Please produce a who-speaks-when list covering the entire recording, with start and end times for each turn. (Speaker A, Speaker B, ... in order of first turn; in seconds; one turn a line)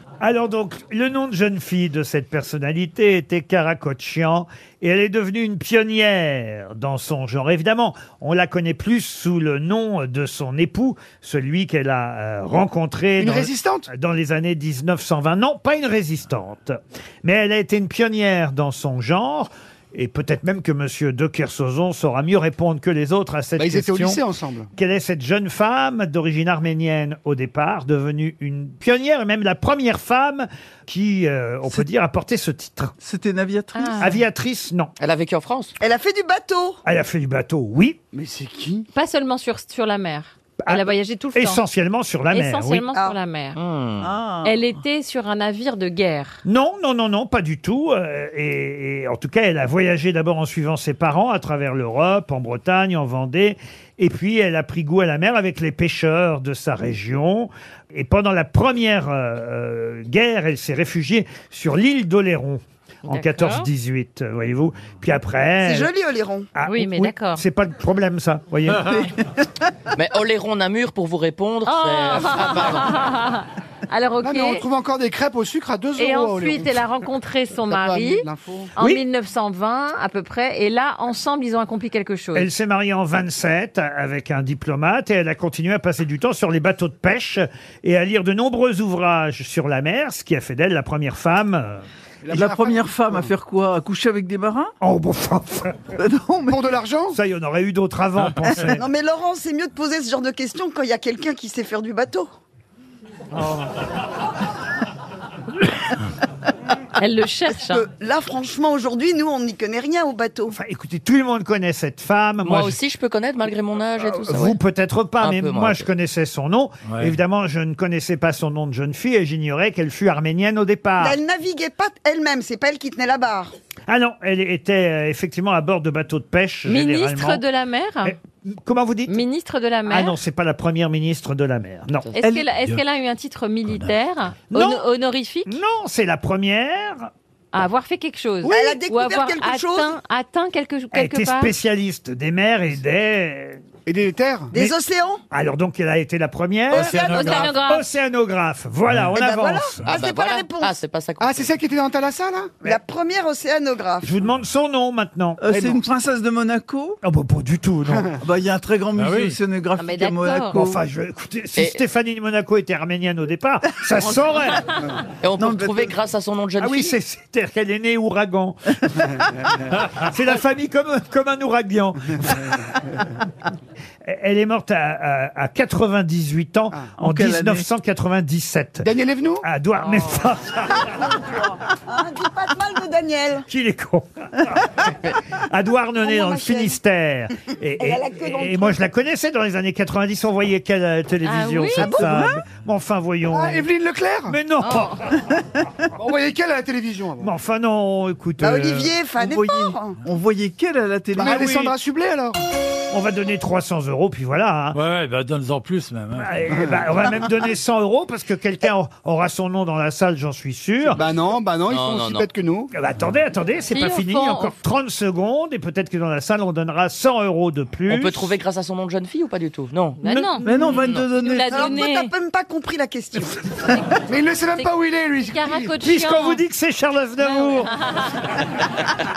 Speaker A: 0.2-24.2
Speaker B: 13.2-13.9
Speaker B: 23.6-24.7
Speaker A: 24.8-32.9
Speaker C: 33.0-34.2
Speaker D: 33.7-34.1
Speaker A: 34.0-34.9
Speaker E: 35.0-35.7
Speaker F: 35.8-36.8
Speaker A: 36.8-38.0
Speaker B: 38.1-38.9
Speaker D: 38.9-41.6
Speaker A: 40.6-42.9
Speaker D: 42.3-43.6
Speaker E: 43.5-44.1
Speaker C: 44.0-44.7
Speaker D: 44.4-46.4
Speaker A: 46.4-65.9
Speaker D: 63.0-63.7
Speaker F: 65.6-66.5
Speaker A: 66.5-69.0
Speaker D: 66.7-67.4
Speaker E: 69.9-72.9
Speaker D: 71.7-74.6
Speaker B: 74.2-76.8
Speaker D: 76.0-78.2
Speaker B: 77.6-78.7
Speaker D: 78.8-82.5
Speaker A: 78.8-79.0
Speaker A: 82.3-91.8
Speaker B: 92.2-93.3
Speaker C: 92.3-94.7
Speaker A: 94.8-95.8
Speaker C: 96.0-96.6
Speaker B: 96.5-97.2
Speaker A: 97.1-98.8
Speaker F: 98.8-102.3
Speaker D: 107.0-107.8
Speaker F: 107.5-110.5
Speaker A: 110.5-112.8
Speaker E: 112.4-114.6
Speaker A: 114.1-121.2
Speaker E: 115.2-115.9
Speaker G: 116.8-117.2
Speaker F: 121.0-123.5
Speaker A: 123.9-127.4
Speaker D: 126.7-128.2
Speaker A: 128.0-129.2
Speaker D: 129.1-130.2
Speaker A: 129.9-132.1
Speaker D: 132.1-135.6
Speaker C: 132.2-132.5
Speaker A: 134.5-134.8
Speaker A: 135.4-137.1
Speaker D: 137.5-141.5
Speaker A: 138.4-138.8
Speaker F: 138.5-139.9
Speaker A: 140.9-143.6
Speaker B: 143.8-144.5
Speaker F: 144.5-145.2
Speaker A: 145.3-149.8
Speaker D: 146.7-147.9
Speaker G: 148.9-149.2
Speaker F: 149.1-150.7
Speaker E: 149.8-151.5
Speaker B: 151.2-152.7
Speaker F: 152.6-154.1
Speaker A: 154.0-155.8
Speaker C: 155.4-157.0
Speaker A: 157.0-158.1
Speaker C: 158.2-160.8
Speaker G: 158.9-159.4
Speaker D: 159.8-160.6
Speaker A: 160.5-164.6
Speaker E: 161.6-161.8
Speaker D: 164.0-164.8
Speaker E: 165.2-166.9
Speaker C: 165.4-165.9
Speaker A: 166.6-168.6
Speaker B: 169.1-169.6
Speaker A: 169.9-172.7
Speaker B: 172.3-172.9
Speaker A: 174.1-178.8
Speaker C: 177.0-177.7
Speaker B: 178.8-179.4
Speaker A: 179.4-181.0
Speaker F: 180.8-183.5
Speaker A: 183.5-193.7
Speaker F: 186.0-186.8
Speaker F: 187.8-188.8
Speaker D: 191.2-192.0
Speaker C: 191.8-192.4
Speaker B: 193.3-194.4
Speaker A: 194.3-195.1
Speaker D: 194.6-195.0
Speaker B: 195.9-197.3
Speaker A: 197.2-198.9
Speaker F: 198.4-200.0
Speaker C: 199.2-201.7
Speaker B: 201.1-202.4
Speaker A: 202.9-204.8
Speaker G: 204.7-206.3
Speaker A: 206.1-211.0
Speaker B: 206.5-206.8
Speaker B: 210.9-212.7
Speaker E: 211.7-212.3
Speaker A: 212.7-218.3
Speaker D: 213.7-214.6
Speaker E: 217.9-221.1
Speaker D: 220.0-222.1
Speaker C: 220.4-221.7
Speaker F: 221.5-223.4
Speaker B: 224.0-225.7
Speaker D: 225.3-226.4
Speaker A: 225.8-227.7
Speaker D: 227.2-228.0